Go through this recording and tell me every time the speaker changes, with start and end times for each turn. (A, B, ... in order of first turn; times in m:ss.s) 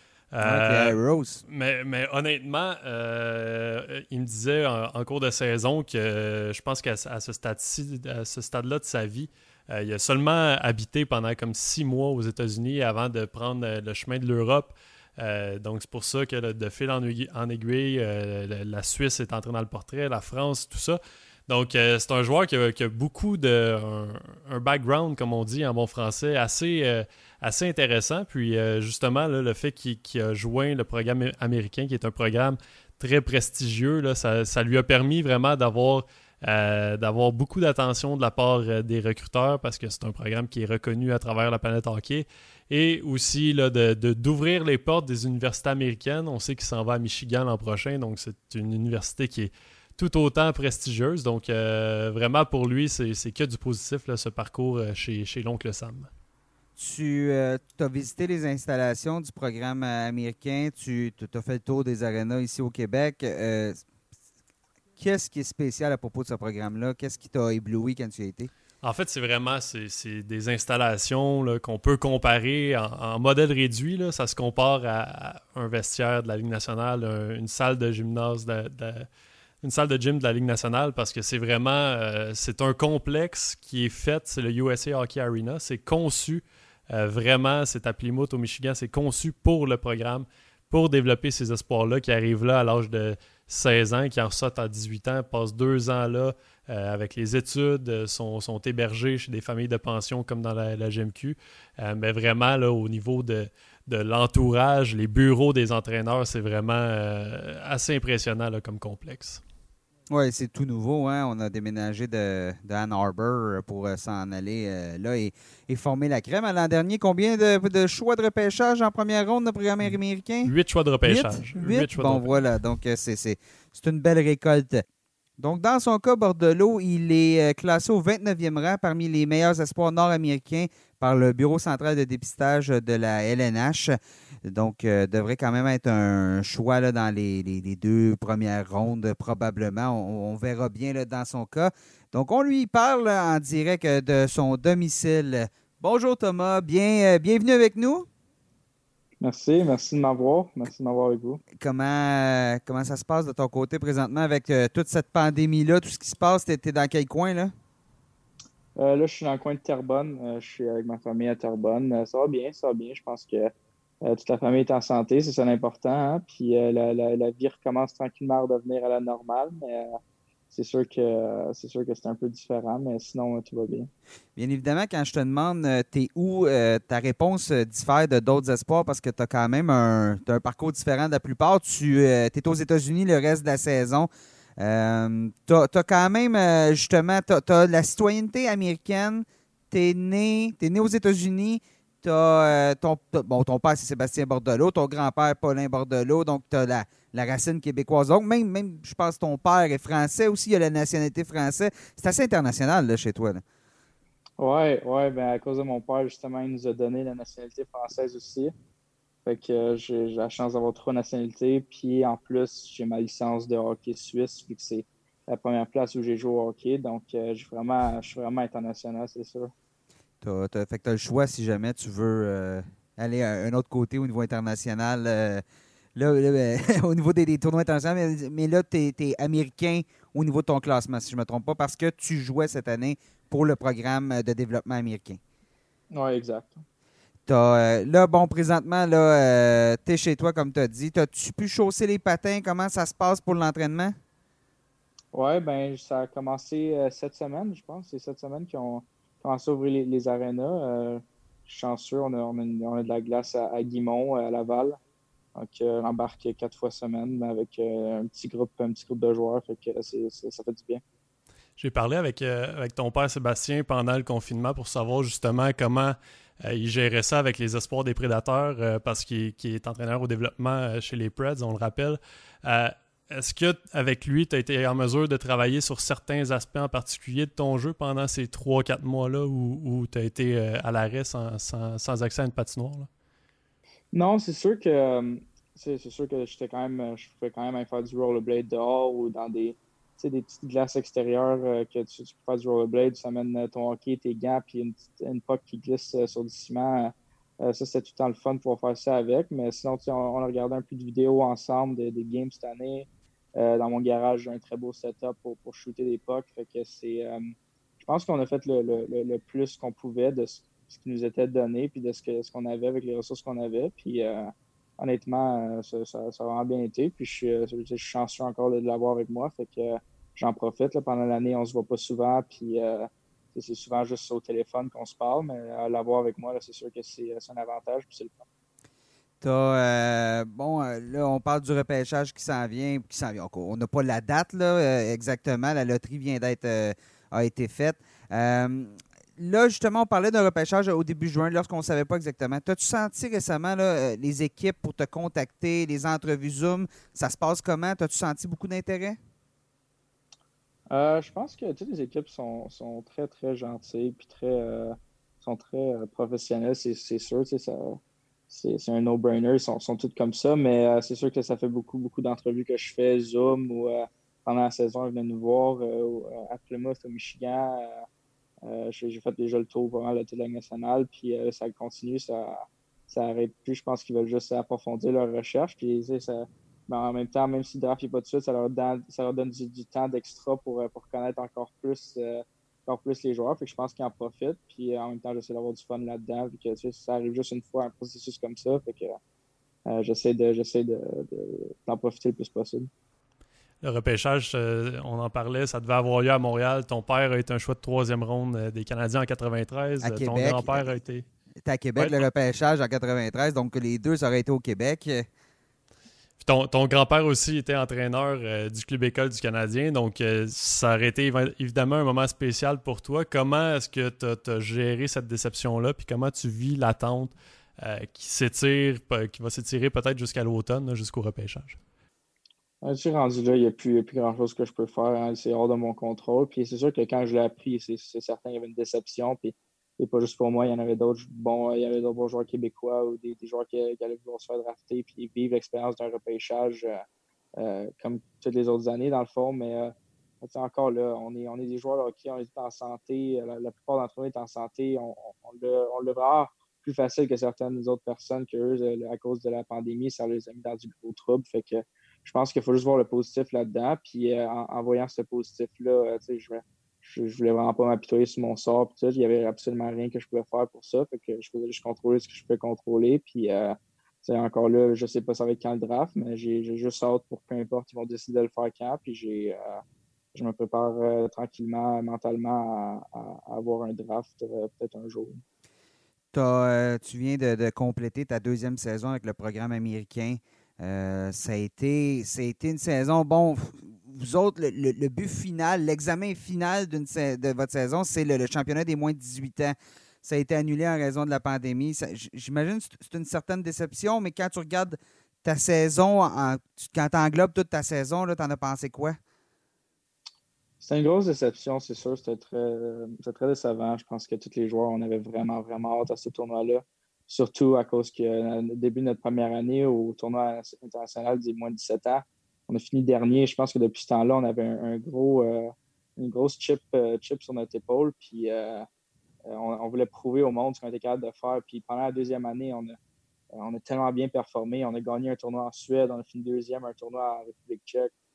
0:00.3-0:56.1 A
0:00.4-0:01.4 B
0:56.8-1:03.8 B
1:05.0-1:08.5 B
1:08.8-1:19.1 A
1:19.6-1:49.4 A
1:50.1-2:00.5 B
1:59.8-2:02.3 A
2:01.0-2:04.8 B
2:05.4-2:28.1 B
2:29.2-2:31.4 C
2:31.5-2:37.5 B
2:38.8-2:50.0 C
2:50.5-2:53.9 C
2:54.4-3:23.4 B
3:24.4-3:28.5 C
3:29.2-3:39.5 C
3:40.2-3:45.4 B
3:46.0-3:55.2 B
3:55.9-3:56.6 C
3:57.3-4:04.0 B
4:05.1-4:14.8 C
4:15.4-4:20.8 C
4:21.6-4:42.9 A
4:43.9-5:28.2 C
5:29.2-5:49.0 B
5:50.7-6:07.8 C
6:08.4-6:29.0 C
6:29.7-6:32.7 C
6:33.6-6:41.0 A
6:39.8-6:40.7 B
6:41.4-6:45.1 B
6:41.8-6:42.0 A
6:46.2-7:01.6 A
7:02.6-7:16.8 C
7:17.4-7:49.6 C
7:50.1-7:55.2 C
7:56.1-8:19.0 B
8:20.6-8:38.7 C
8:39.3-8:42.8 C
8:43.3-8:47.9 C